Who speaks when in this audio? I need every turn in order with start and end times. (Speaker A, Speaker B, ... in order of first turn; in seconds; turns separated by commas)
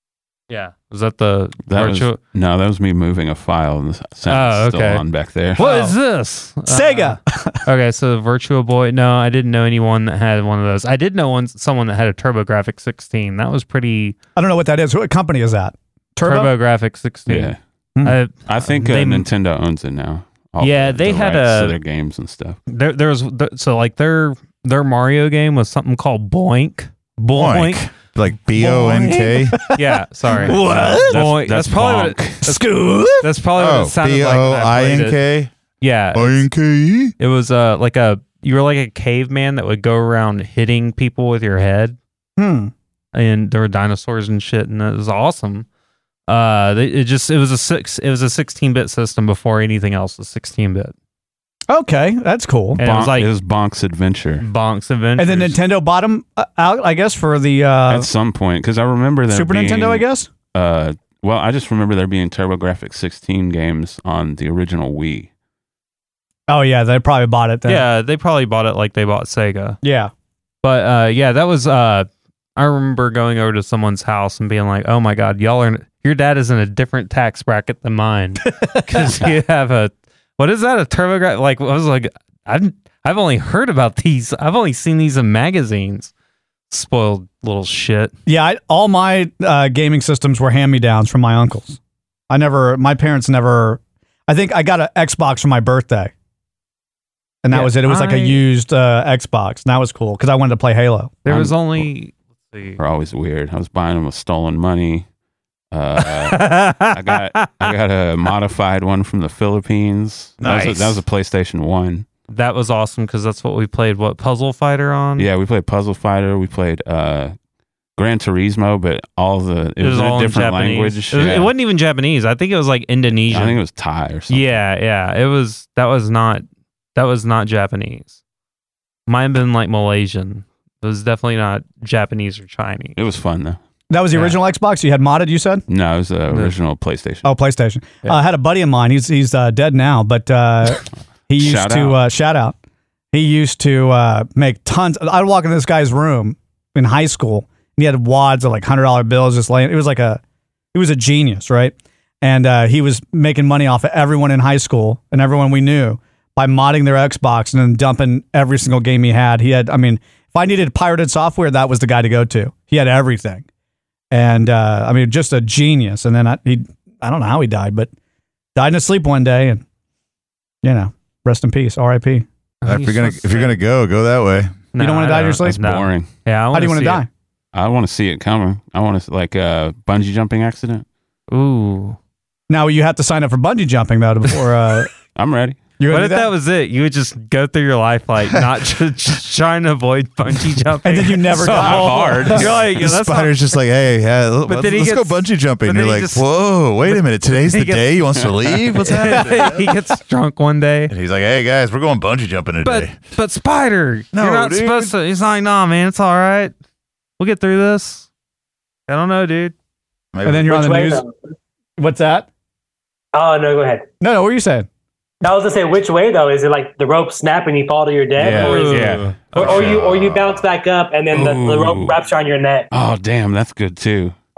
Speaker A: 0.5-2.2, Speaker B: 1.7-5.7, Speaker A: 4.3-5.0, Speaker A: 5.6-14.2, Speaker C: 5.6-5.9, Speaker C: 6.7-7.6, Speaker C: 14.3-16.5, Speaker A: 16.2-19.2, Speaker B: 17.3-17.6, Speaker B: 18.5-22.6, Speaker A: 20.6-21.8, Speaker A: 22.7-27.8, Speaker D: 27.3-29.6, Speaker A: 28.6-32.6, Speaker C: 28.6-29.8, Speaker C: 30.4-31.2, Speaker B: 30.5-32.4, Speaker C: 32.5-33.3, Speaker A: 33.2-35.2, Speaker D: 33.5-35.5, Speaker A: 35.8-36.4, Speaker D: 36.1-37.1, Speaker A: 37.2-42.0, Speaker C: 42.4-42.7, Speaker A: 43.1-45.6, Speaker A: 46.3-50.9, Speaker C: 51.7-52.8, Speaker A: 52.8-53.3, Speaker B: 52.8-54.5, Speaker A: 54.4-55.5, Speaker C: 55.2-58.1, Speaker B: 57.9-65.3, Speaker C: 59.3-60.3, Speaker C: 66.5-67.8, Speaker A: 67.7-69.8, Speaker C: 69.8-70.1, Speaker A: 70.6-86.1, Speaker C: 78.6-79.1, Speaker A: 86.7-88.1, Speaker C: 88.2-91.8, Speaker C: 92.3-96.1, Speaker C: 97.4-101.2, Speaker A: 97.5-98.4, Speaker A: 101.2-102.8, Speaker B: 101.3-101.9, Speaker B: 102.8-105.0, Speaker B: 105.7-112.0, Speaker A: 106.0-107.7, Speaker D: 110.4-111.0, Speaker A: 110.4-110.7, Speaker A: 112.3-115.3, Speaker B: 115.2-117.3, Speaker B: 118.0-121.5, Speaker A: 119.8-123.6, Speaker B: 123.3-124.6, Speaker A: 124.3-128.2, Speaker A: 129.1-133.0, Speaker B: 132.9-133.6, Speaker C: 133.9-135.6, Speaker B: 135.7-137.3, Speaker C: 137.2-142.6, Speaker B: 141.4-142.0, Speaker C: 143.1-150.2, Speaker C: 150.7-163.4, Speaker C: 164.1-167.9, Speaker C: 168.6-169.6, Speaker C: 170.6-172.2, Speaker A: 172.6-173.6, Speaker D: 172.7-174.6, Speaker A: 174.7-177.0, Speaker C: 174.8-175.6, Speaker B: 175.5-176.1, Speaker C: 176.5-177.1, Speaker B: 177.5-180.8, Speaker A: 181.3-182.0, Speaker C: 182.5-184.9, Speaker B: 185.1-185.6, Speaker C: 185.8-186.3, Speaker A: 185.9-193.4, Speaker C: 190.8-192.5, Speaker B: 191.4-192.7, Speaker D: 192.5-199.7, Speaker A: 194.4-196.2, Speaker A: 196.8-200.9, Speaker D: 200.9-202.9, Speaker A: 202.6-206.5, Speaker D: 204.1-204.9, Speaker A: 207.2-208.1, Speaker A: 208.9-209.5, Speaker D: 210.1-210.7, Speaker C: 210.2-211.0, Speaker E: 210.5-211.1, Speaker C: 211.8-212.3, Speaker E: 213.1-213.8, Speaker C: 214.0-214.7, Speaker E: 215.2-222.7, Speaker B: 218.2-220.3, Speaker A: 218.3-219.7, Speaker B: 221.1-222.0, Speaker B: 222.7-224.1